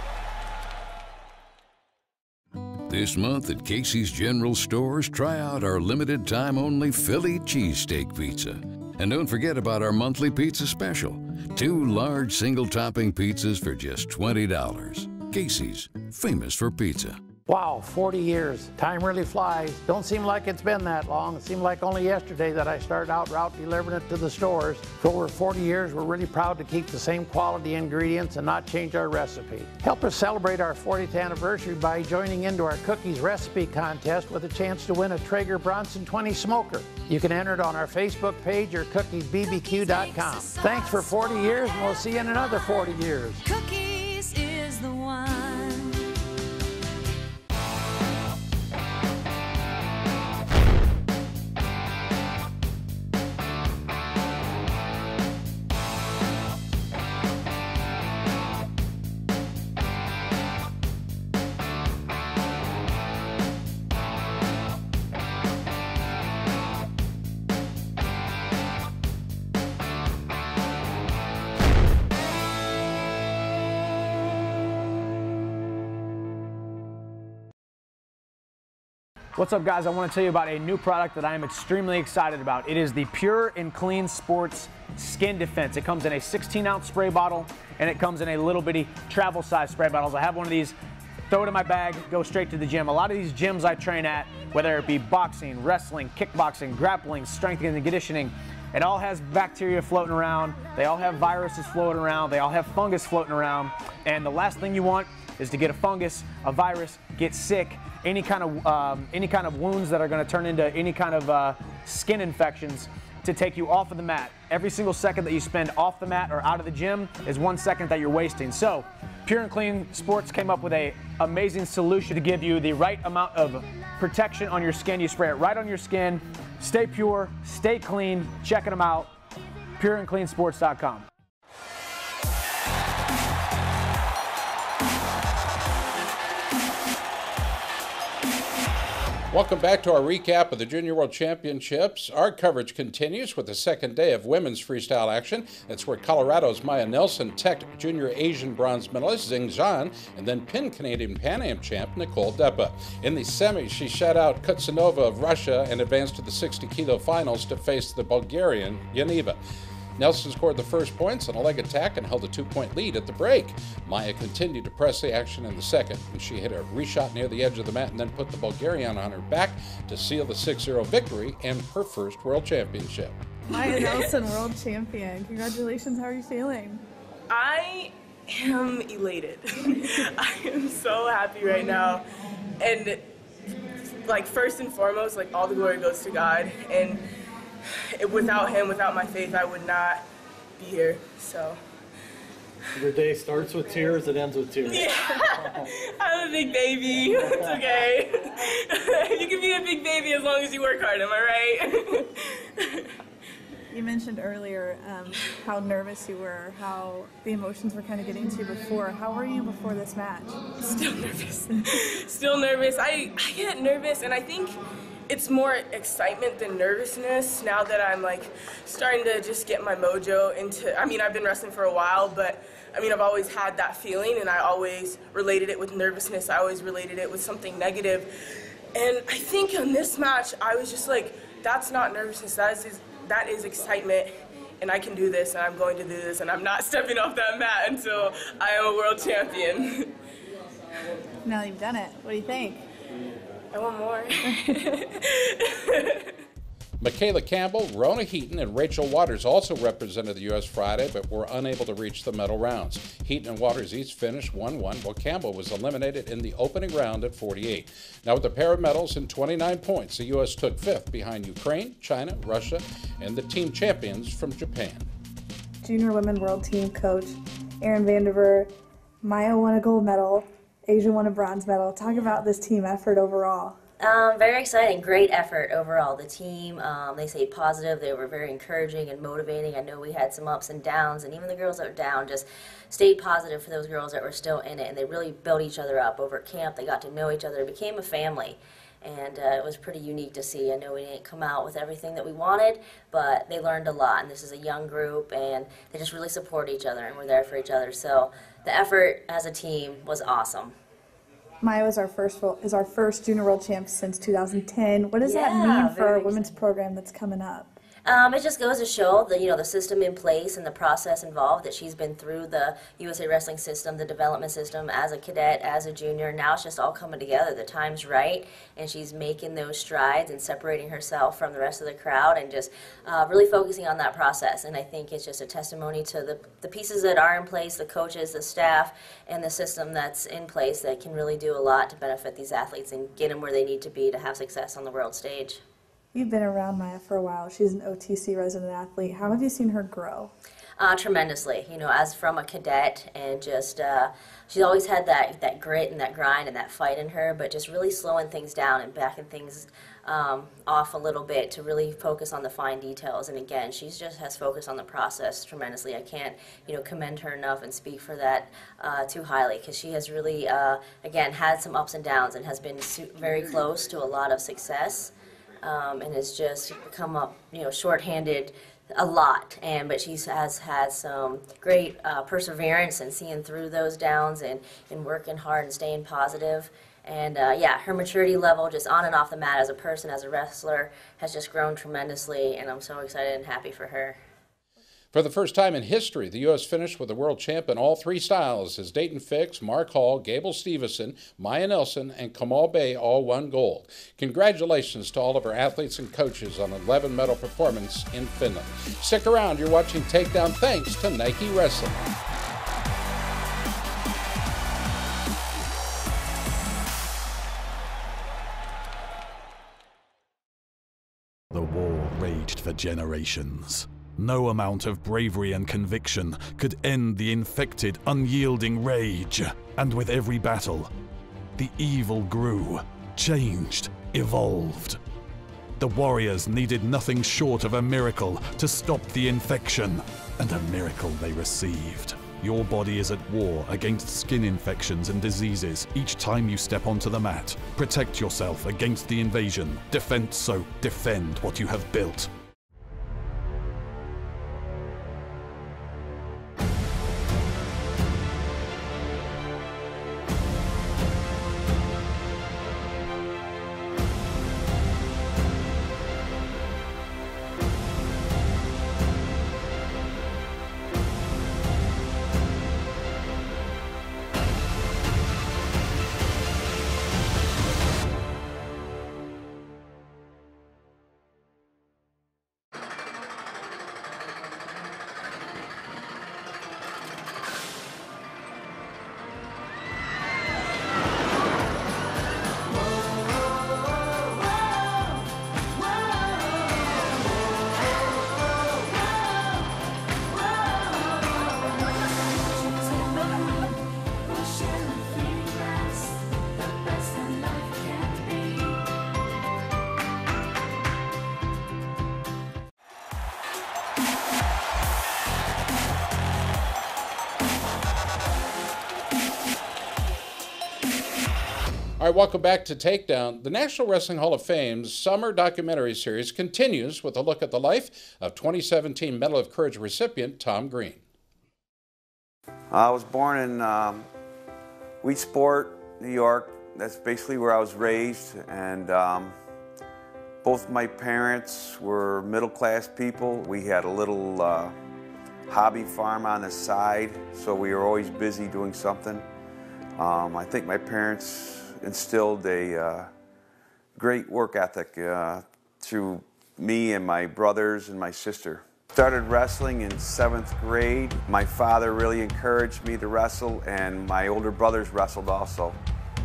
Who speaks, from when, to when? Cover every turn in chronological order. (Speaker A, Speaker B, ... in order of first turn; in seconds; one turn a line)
Speaker A: 2.9-17.2
Speaker B: 17.4-43.4
Speaker C: 39.4-42.6
Speaker C: 43.4-46.1
Speaker D: 79.3-90.8
Speaker D: 91.3-129.1
Speaker D: 129.8-131.1
Speaker E: 139.3-159.4
Speaker E: 160.0-173.2
Speaker F: 173.5-176.8
Speaker G: 173.5-174.1
Speaker G: 177.3-182.0
Speaker G: 182.6-183.1
Speaker G: 184.1-187.0
Speaker G: 187.9-190.0
Speaker G: 190.6-191.6
Speaker H: 192.8-194.9
Speaker G: 194.6-202.9
Speaker H: 197.2-197.6
Speaker F: 203.7-210.5
Speaker G: 210.6-214.5
Speaker G: 215.1-228.1
Speaker G: 228.7-239.9
Speaker F: 241.2-242.6
Speaker G: 243.5-246.2
Speaker E: 246.8-264.9
Speaker F: 265.6-268.5
Speaker F: 269.0-273.5
Speaker I: 273.8-300.5
Speaker F: 301.4-307.5
Speaker I: 305.0-306.4
Speaker I: 307.8-335.4
Speaker F: 335.9-340.1
Speaker I: 340.6-384.0
Speaker E: 384.9-401.8
Speaker J: 411.3-420.7
Speaker J: 421.4-424.8
Speaker J: 425.6-442.1
Speaker C: 484.6-484.9
Speaker C: 485.6-486.5
Speaker C: 488.5-489.5
Speaker C: 490.1-498.6
Speaker E: 511.8-520.8
Speaker K: 522.5-523.9
Speaker K: 524.8-529.1
Speaker K: 530.2-534.5
Speaker K: 535.3-539.0
Speaker K: 539.8-542.9
Speaker K: 543.7-555.6